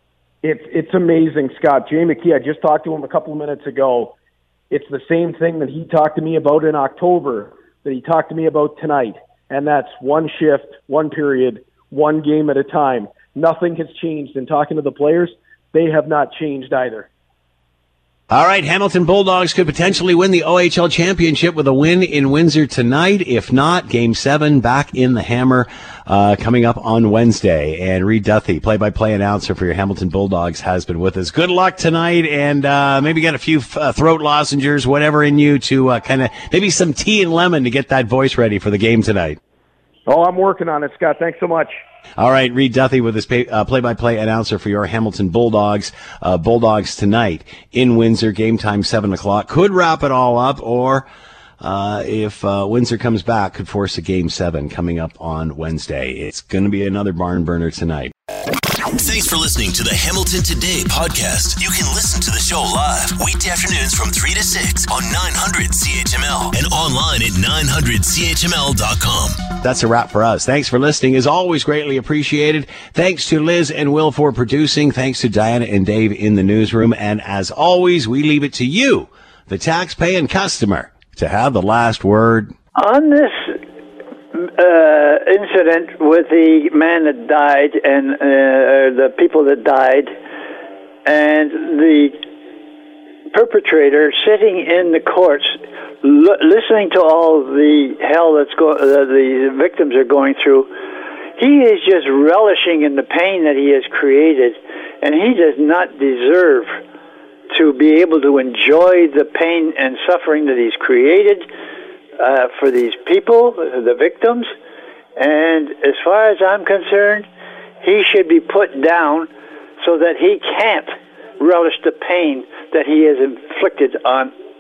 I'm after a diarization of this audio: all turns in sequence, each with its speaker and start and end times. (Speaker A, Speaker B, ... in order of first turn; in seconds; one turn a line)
Speaker A: 0.4-4.2
Speaker A: 4.7-17.1
Speaker B: 18.3-39.4
Speaker A: 40.1-41.8
Speaker B: 42.2-51.1
Speaker B: 51.6-58.1
Speaker C: 58.9-69.5
Speaker B: 69.6-82.5
Speaker D: 82.8-83.6
Speaker D: 84.3-90.2
Speaker D: 91.0-92.2
Speaker D: 93.3-100.7
Speaker D: 101.4-106.8
Speaker D: 107.5-111.5
Speaker D: 112.2-114.5
Speaker D: 115.2-117.3
Speaker D: 117.8-124.3